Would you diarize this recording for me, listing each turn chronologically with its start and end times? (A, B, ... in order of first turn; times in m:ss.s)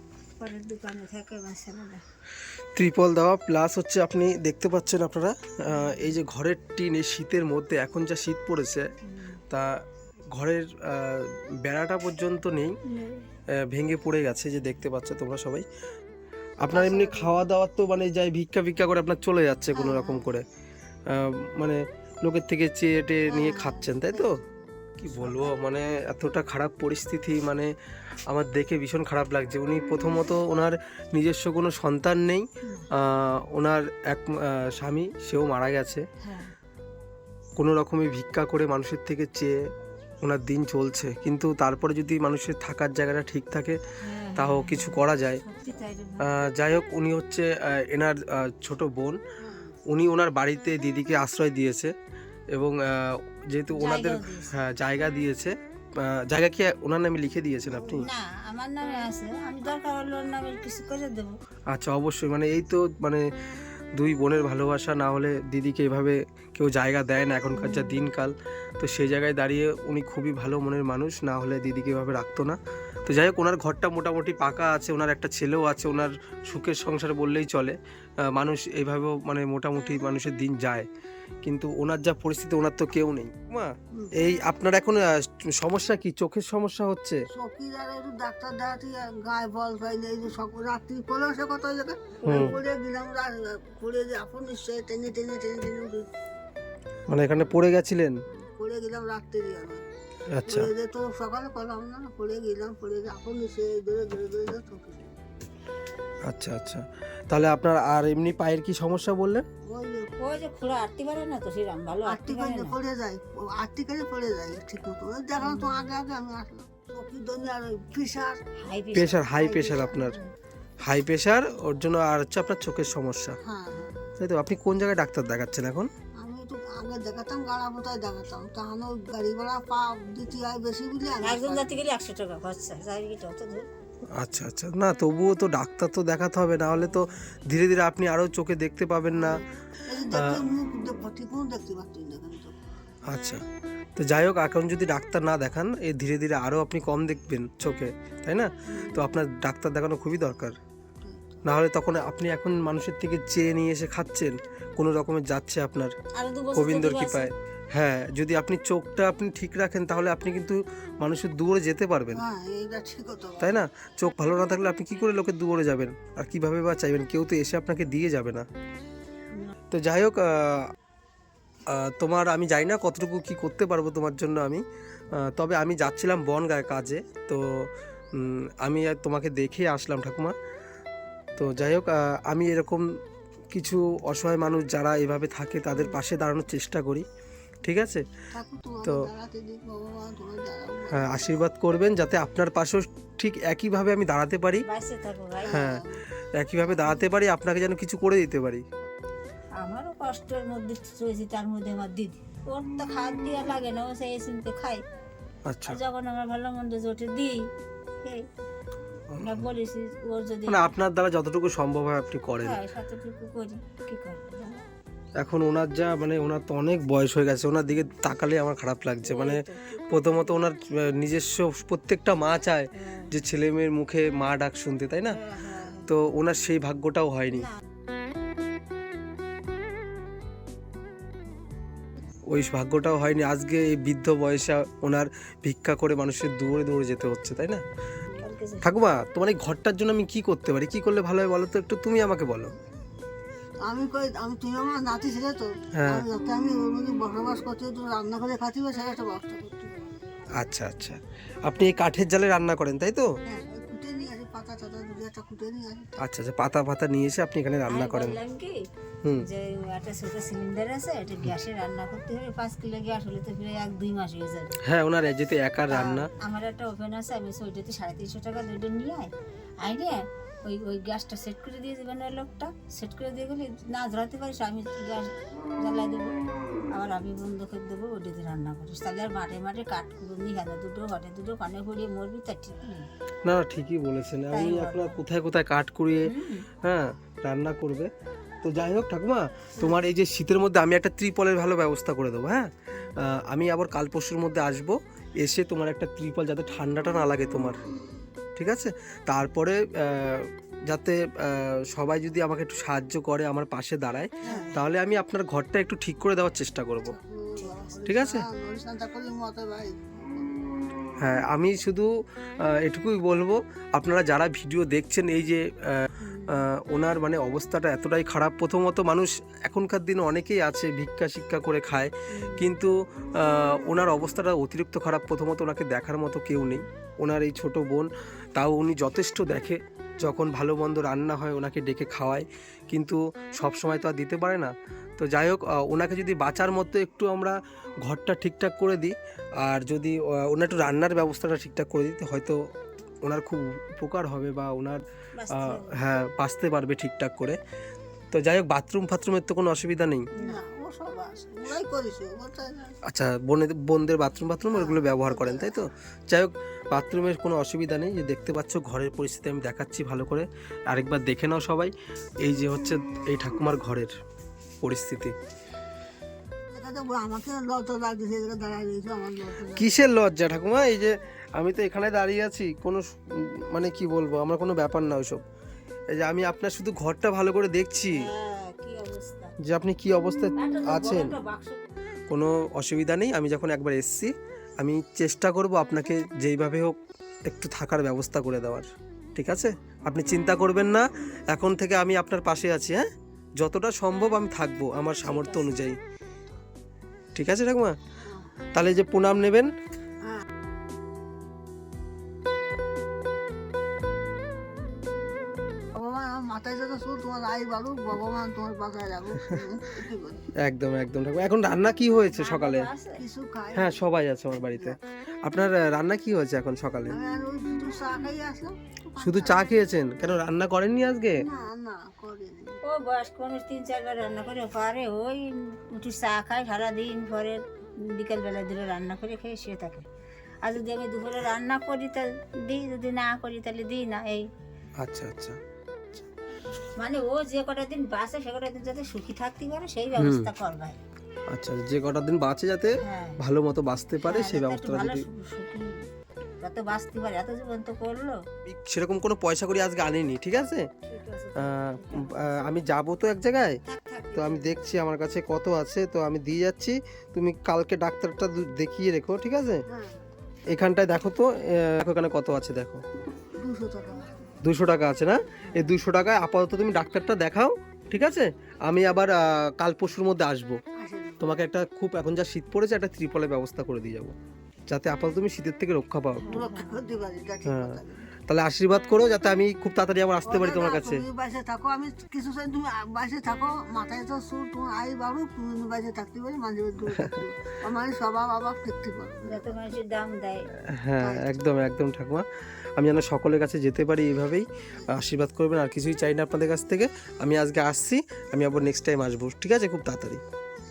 0:00.4-0:02.0 A
0:02.7-0:08.9 B
0:09.1-0:09.4 A
0:09.5-0:12.8 B
0:12.9-0:13.2 A
0:13.5-0:15.6 B
0:16.6-0:20.4 B
0:16.7-0:17.4 C
0:19.7-0:20.2 C
0:21.1-0:24.4 B
0:23.3-0:25.5 C
0:25.0-0:27.7 B
0:28.3-0:36.0 B
0:36.2-0:36.5 A
0:37.6-0:39.6 B
0:40.2-0:43.8 B
0:44.0-0:46.4 A
0:44.4-0:45.4 B
0:46.2-0:49.2 B
0:49.4-0:49.7 C
0:49.9-0:51.9 B
0:52.5-0:58.1 B
0:53.7-0:54.5 A
0:57.8-1:01.4 A
1:01.7-1:03.2 B
1:03.9-1:17.8 B
1:07.5-1:08.1 A
1:18.3-1:20.8 B
1:21.4-1:27.2 B
1:27.3-1:36.1 C
1:32.2-1:32.6 A
1:32.2-1:32.5 B
1:37.1-1:38.2 B
1:38.3-1:39.8 C
1:40.3-1:40.7 B
1:40.4-1:45.1 C
1:46.2-1:49.4 B
1:49.7-1:50.1 C
1:50.2-1:52.7 A
1:52.1-1:58.4 C
1:55.4-1:55.9 A
1:58.6-1:59.9 A
1:58.9-2:00.2 B
1:59.5-2:00.2 C
2:00.8-2:03.4 B
2:03.4-2:04.1 C
2:04.2-2:05.9 B
2:06.2-2:11.8 C
2:11.2-2:13.7 A
2:14.2-2:19.4 B
2:16.8-2:17.1 A
2:19.2-2:22.6 C
2:20.1-2:20.4 B
2:23.1-2:23.4 B
2:24.0-2:30.6 B
2:28.8-2:29.2 C
2:31.0-2:31.4 C
2:31.4-2:35.9 B
2:36.1-2:37.3 A
2:36.5-2:42.2 B
2:42.1-2:43.6 C
2:43.4-2:48.4 B
2:49.7-2:50.7 B
2:51.6-3:00.3 B
3:01.4-3:02.8 B
3:03.5-3:07.0 B
3:07.6-3:08.0 B
3:08.3-3:11.4 C
3:10.9-3:14.6 B
3:14.6-3:15.6 A
3:15.4-3:16.0 C
3:15.5-3:15.8 B
3:16.4-3:18.6 B
3:16.6-3:17.0 C
3:19.6-3:24.8 A
3:25.4-3:25.8 B
3:25.6-3:27.4 A
3:29.1-3:29.5 B
3:29.2-3:30.7 A
3:30.5-3:32.6 B
3:32.4-3:34.6 A
3:35.2-3:39.4 B
3:39.0-3:40.2 A
3:39.9-3:45.2 B
3:42.8-3:43.1 A
3:45.1-3:45.9 A
3:45.9-3:47.5 B
3:52.3-3:57.6 B
3:58.2-3:58.7 A
3:58.6-4:02.5 B
4:03.6-4:09.7 C
4:05.8-4:06.1 B
4:10.4-4:13.1 B
4:13.2-4:16.0 C
4:16.0-4:18.2 B
4:17.7-4:18.6 A
4:19.1-4:24.5 A
4:24.6-4:26.1 B
4:25.7-4:36.2 A
4:36.7-4:42.9 A
4:43.2-4:47.9 B
4:44.3-4:45.0 A
4:46.0-4:46.5 A
4:48.4-4:57.6 B
4:58.4-5:07.0 B
5:04.2-5:04.6 A
5:06.9-5:10.4 C
5:07.4-5:07.7 A
5:07.8-5:08.3 B
5:11.0-5:11.9 B
5:12.5-5:42.4 B
5:16.0-5:16.4 A
5:22.1-5:22.5 A
5:43.0-5:47.4 B
5:45.1-5:45.8 A
5:48.1-5:50.1 B
5:50.2-5:50.4 A
5:50.2-5:52.7 C
5:52.8-6:03.9 B
5:54.5-5:55.6 C
6:04.6-6:05.1 B
6:06.5-6:09.8 C
6:09.5-6:15.2 B
6:15.9-6:18.0 B
6:17.9-6:19.3 A
6:19.4-6:21.2 B
6:20.3-6:21.7 A
6:22.1-6:32.8 B
6:33.4-6:35.8 B
6:35.0-6:35.7 A
6:37.1-6:37.8 B
6:38.5-6:39.5 B
6:45.7-6:50.3 C
6:50.4-6:52.7 B
6:52.1-6:53.0 A
6:53.0-6:53.8 C
6:53.5-6:57.0 B
6:54.4-6:54.8 C
6:56.9-7:00.2 C
6:59.0-7:01.2 B
7:01.2-7:02.6 C
7:02.6-7:09.8 A
7:10.4-7:14.2 A
7:14.8-7:15.4 B
7:16.8-7:20.8 A
7:20.0-7:20.3 B
7:21.3-7:25.0 B
7:22.8-7:23.2 A
7:24.0-7:25.8 A
7:26.4-7:28.2 A
7:28.4-7:30.7 B
7:30.9-7:32.3 A
7:31.4-7:33.6 B
7:33.6-7:34.8 A
7:34.1-7:39.6 B
7:39.7-7:40.0 C
7:40.5-7:42.8 B
7:43.4-7:44.3 C
7:44.4-7:50.6 B
7:50.8-7:51.4 C
7:51.2-7:54.1 B
7:54.7-7:56.4 B
7:56.2-7:56.8 A
7:56.3-7:58.1 C
7:57.4-8:01.0 B
8:00.2-8:09.6 C
8:09.3-8:10.5 A
8:10.6-8:20.2 B
8:11.0-8:11.4 C